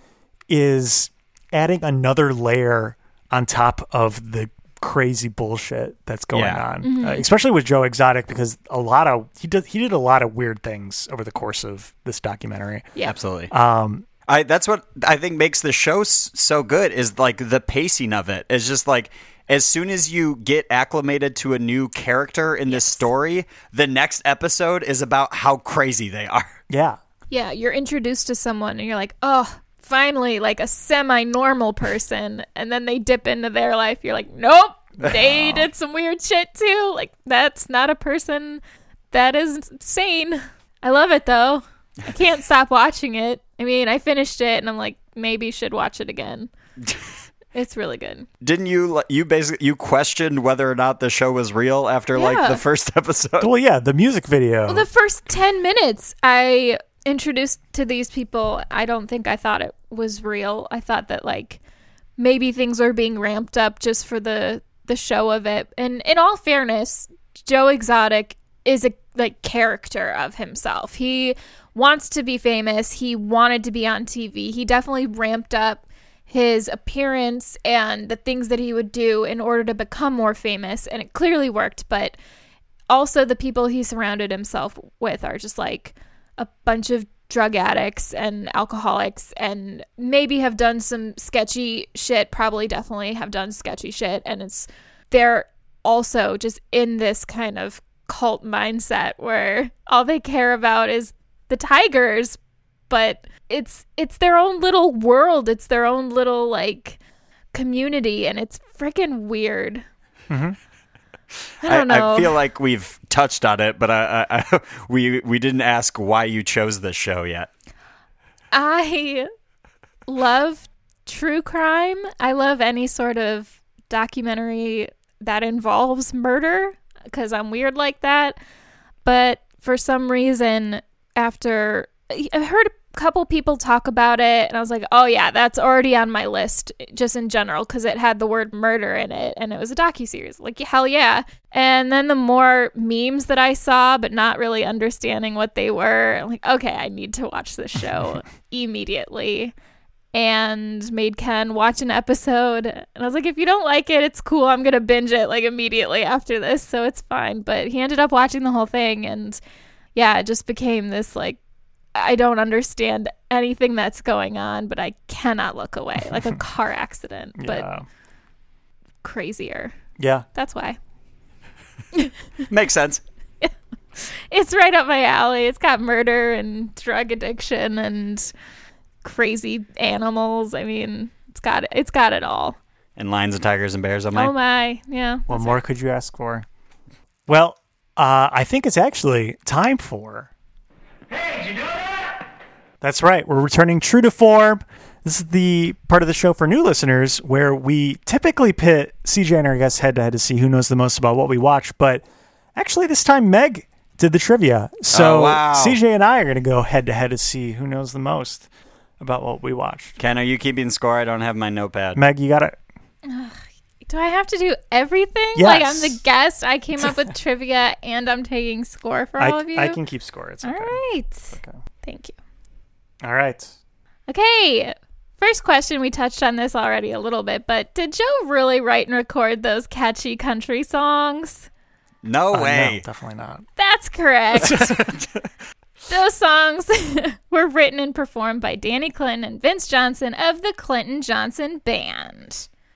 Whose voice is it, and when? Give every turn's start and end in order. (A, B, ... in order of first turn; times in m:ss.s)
0:00.5-0:12.9 A
0:06.3-0:06.6 B
0:06.8-0:07.2 C
0:13.0-0:13.5 B
0:13.5-0:14.1 A
0:14.3-0:26.6 B
0:22.7-0:23.1 C
0:26.7-0:27.0 A
0:27.3-0:38.6 C
0:35.0-0:35.7 A
0:39.1-0:46.5 C
0:47.5-0:48.3 C
0:48.4-0:53.5 B
0:52.1-0:52.6 C
0:53.4-0:54.9 A
0:54.7-1:01.6 C
1:02.2-1:22.2 C
1:22.9-1:42.4 C
1:42.9-1:47.0 C
1:47.5-1:49.8 C
1:50.3-1:50.6 A
1:51.6-1:52.4 C
1:51.6-1:57.5 B
1:58.5-1:59.3 C
2:00.1-2:08.4 C
2:09.0-2:29.5 C
2:30.1-2:39.4 C
2:40.0-2:41.4 C
2:42.0-2:47.7 C
2:47.4-2:47.9 A
2:49.0-2:49.7 C
2:50.0-2:50.3 A
2:50.4-2:50.8 C
2:51.9-2:52.4 C
2:52.5-2:53.0 B
2:53.4-2:58.3 C
2:59.0-3:02.6 C
3:03.0-3:04.3 B
3:04.1-3:05.6 C
3:05.3-3:06.5 A
3:07.3-3:10.3 A
3:12.8-3:22.0 A
3:22.6-3:28.5 A
3:24.9-3:25.8 B
3:29.0-3:30.0 A
3:30.0-3:32.0 B
3:32.0-3:32.6 A
3:33.0-3:39.8 C
3:35.4-3:36.0 A
3:39.2-3:40.8 A
3:40.4-3:42.2 C
3:41.3-3:41.6 A
3:43.0-3:43.5 A
3:44.1-3:51.5 C
3:52.0-3:52.8 B
3:52.3-3:53.4 A
3:53.6-3:54.8 C
3:54.4-3:54.7 A
3:54.5-3:55.1 B
3:55.9-4:02.5 C